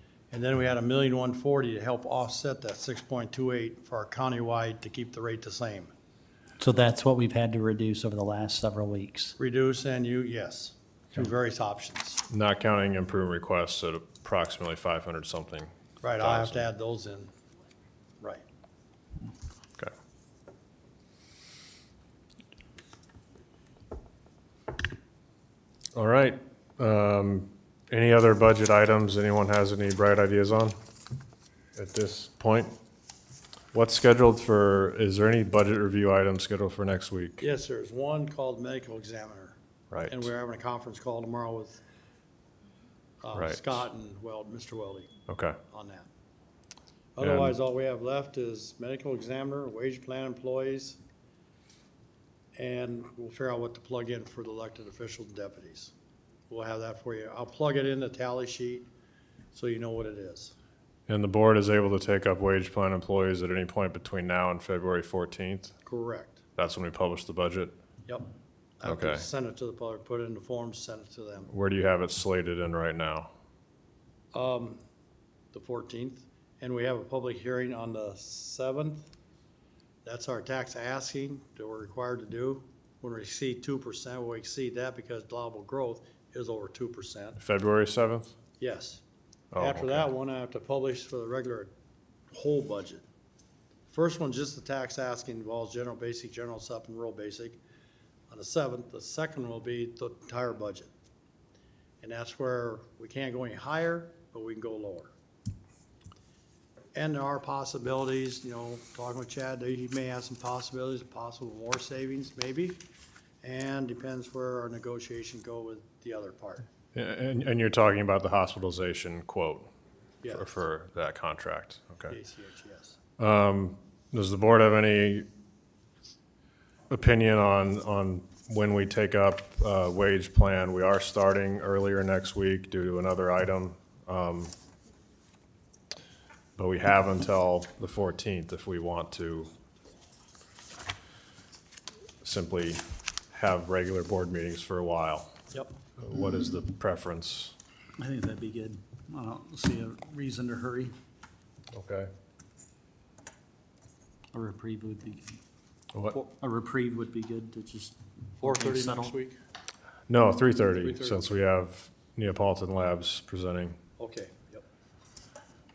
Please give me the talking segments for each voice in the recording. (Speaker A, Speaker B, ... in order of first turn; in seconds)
Speaker A: 0.3-5.9, 9.4-12.2, 16.0-17.3, 37.4-39.6, 40.1-41.8, 43.2-45.1, 45.7-46.1, 47.1-51.0, 52.5-55.9, 56.5-58.9, 59.5-60.5, 65.8-66.4, 68.1-71.5, 74.3-74.8, 75.5-79.0, 80.0-87.4, 88.6-89.0, 89.5-91.7, 92.3-93.0, 93.9-97.6, 98.3-100.9, 102.0-105.1, 106.9-112.8, 113.4-116.7, 120.2-120.5, 122.1-123.0, 158.4-159.4, 160.8-161.3, 164.0-164.7
Speaker B: 6.6-9.3, 148.0-150.9, 154.3-155.4, 156.1-159.1
Speaker C: 12.3-16.6, 25.9-30.8, 31.8-32.8, 33.7-37.4, 39.9-40.3, 43.3-43.8, 45.3-45.6, 47.2-47.5, 61.1-65.7, 66.6-67.8, 68.8-69.3, 71.5-73.3, 87.4-88.3, 89.5-90.1, 116.9-119.7, 120.3-122.1, 123.2-125.3, 126.9-134.5, 136.6-139.5, 142.2-145.3, 146.0-147.6, 151.7-152.1, 160.1-163.8